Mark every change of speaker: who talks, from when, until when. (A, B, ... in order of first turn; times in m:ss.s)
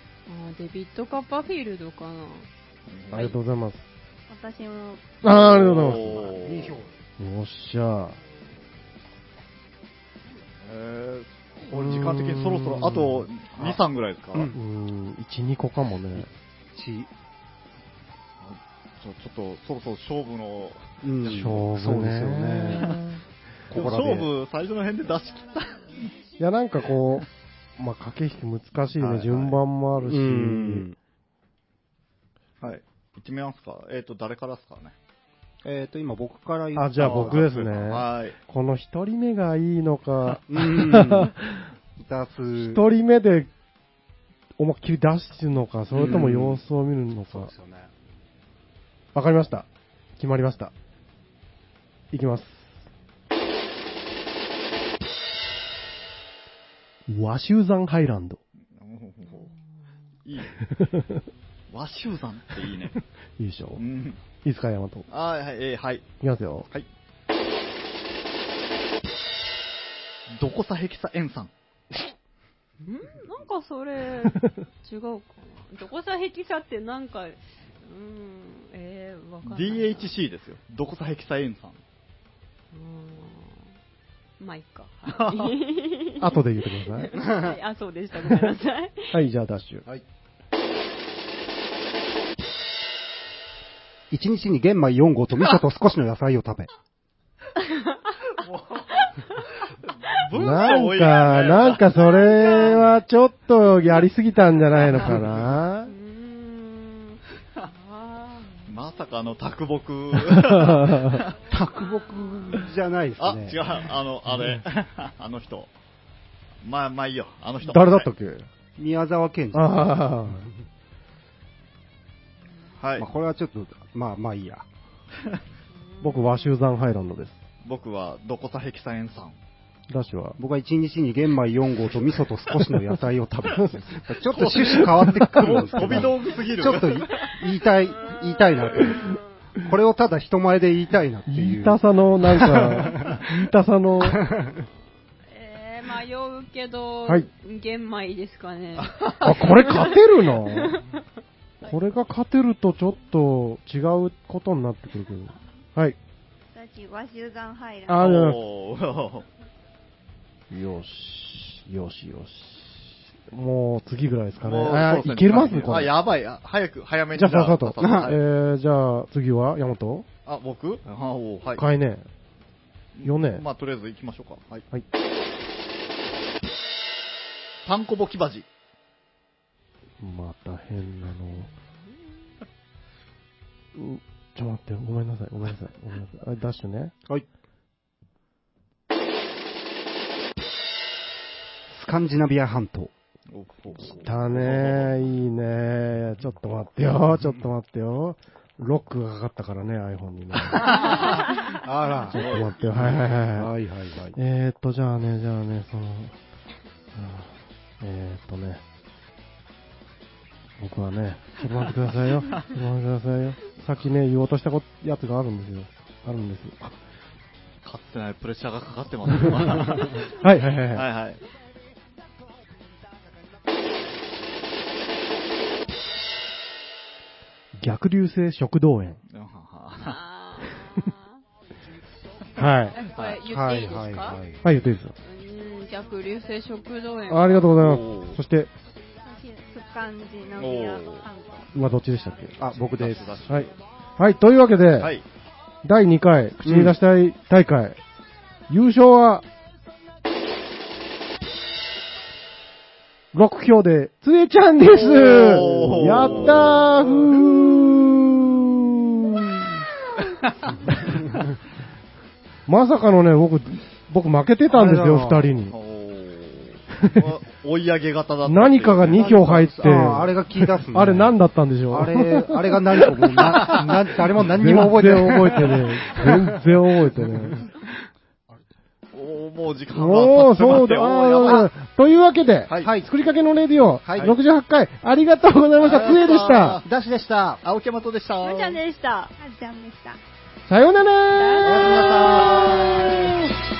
0:00.3-0:02.5 A
0:02.9-0:03.3 B
0:03.1-0:03.8 C
0:04.3-0:05.2 D
0:05.2-0:06.2 C
0:05.2-0:06.8 B
0:05.8-0:06.9 E
0:07.2-0:08.2 C
0:10.6-0:14.5 B
0:11.7-0:13.3 C
0:14.5-0:16.3 C
0:16.7-0:17.1 E
0:18.4-0:20.8 B
0:21.0-0:23.0 E
0:21.2-0:22.9 C
0:22.8-0:26.1 B
0:23.7-0:24.3 E
0:26.4-0:27.3 C
0:27.8-0:30.9 C
0:29.0-0:29.6 B
0:30.0-0:31.0 E
0:32.6-0:34.9 B
0:35.6-0:38.0 E
0:36.8-0:41.7 C
0:37.0-0:38.4 B
0:40.4-0:41.3 E
0:42.0-0:42.8 E
0:42.6-0:43.5 C
0:44.6-0:47.5 C
0:45.9-0:46.2 B
0:45.9-0:46.6 E
0:47.3-0:47.9 E
0:49.1-0:50.7 C
0:52.1-0:52.8 C
0:57.1-0:58.4 C
0:58.7-0:59.5 B
1:00.2-1:00.6 B
1:00.6-1:01.2 C
1:01.7-1:03.0 B
1:03.4-1:03.8 C
1:03.8-1:04.2 B
1:04.4-1:05.0 C
1:05.1-1:06.1 B
1:06.2-1:06.7 C
1:10.3-1:11.5 B
1:12.8-1:20.1 A
1:19.4-1:21.8 B
1:22.7-1:23.7 A
1:24.4-1:29.2 A
1:25.1-1:25.5 B
1:26.2-1:27.1 C
1:27.2-1:27.6 E
1:29.1-1:29.8 C
1:34.1-1:36.7 E
1:37.6-1:38.2 A
1:38.3-1:39.1 B
1:39.0-1:39.4 A
1:40.1-1:43.0 B
1:40.3-1:45.9 C
1:45.8-1:48.7 A
1:48.7-1:51.4 B
1:50.2-1:51.2 C
1:51.5-1:53.6 E
1:53.2-1:55.7 B
1:56.6-1:58.1 B
1:57.6-1:58.5 C
1:58.8-1:59.9 E
1:59.5-2:00.5 C
2:02.8-2:03.1 B
2:03.0-2:04.7 E
2:05.9-2:06.4 A
2:06.0-2:07.4 C
2:07.6-2:09.4 B
2:09.9-2:10.4 C
2:10.4-2:23.2 E
2:13.5-2:13.8 C
2:14.2-2:17.3 B
2:15.0-2:16.1 C
2:18.0-2:19.2 A
2:21.3-2:24.2 C
2:24.0-2:24.6 E
2:25.3-2:31.0 A
2:28.8-2:29.1 B
2:29.2-2:30.8 C
2:31.6-2:36.0 C
2:36.5-2:38.0 D
2:37.9-2:38.4 C
2:37.9-2:39.3 B
2:40.5-2:46.0 C
2:44.4-2:48.2 B
2:47.1-2:50.1 C
2:47.8-2:48.1 E
2:50.2-2:51.6 B
2:51.6-2:52.1 C
2:52.9-2:54.6 B
2:53.0-2:53.4 C
2:57.6-2:58.4 B
3:00.0-3:01.5 C
3:03.7-3:06.9 C
3:11.7-3:12.9 E
3:13.3-3:15.0 B
3:13.8-3:21.2 C
3:20.7-3:24.2 E
3:22.1-3:23.0 B
3:22.1-3:23.5 C
3:24.1-3:26.1 C
3:26.9-3:28.6 C
3:30.6-3:36.8 C
3:37.6-3:40.2 B
3:40.2-3:40.9 C
3:40.7-3:41.2 B
3:47.6-3:49.0 C
3:49.1-3:50.0 B
3:49.8-3:51.1 A
3:52.4-3:52.8 C
3:52.7-3:54.2 A
3:52.9-3:53.2 B
3:53.2-3:54.4 E
3:54.4-3:54.9 C
3:55.0-3:57.5 A
3:57.1-3:58.5 C
3:57.6-3:58.2 B
3:59.0-4:01.5 D
4:00.4-4:01.0 B
4:01.5-4:02.4 C
4:02.4-4:03.2 E
4:02.4-4:03.6 B
4:03.2-4:04.9 C
4:04.8-4:05.0 B
4:05.6-4:07.8 C
4:06.4-4:06.7 E
4:08.5-4:09.2 C
4:13.1-4:19.7 C
4:14.7-4:17.9 B
4:20.0-4:20.7 B
4:22.4-4:25.5 C
4:24.5-4:25.3 E
4:25.5-4:30.0 B
4:26.7-4:27.1 C
4:28.2-4:37.4 C
4:29.0-4:31.2 E
4:31.7-4:37.3 E
4:38.9-4:41.5 B
4:39.7-4:46.6 C
4:42.6-4:42.9 E
4:43.8-4:44.2 E
4:45.6-4:46.6 B
4:46.6-4:47.4 E
4:47.4-4:48.6 B
4:48.2-4:49.1 A
4:49.1-4:50.0 D
4:50.5-4:53.1 C
4:51.1-4:53.0 A
4:51.4-4:52.9 E
4:51.8-4:53.0 B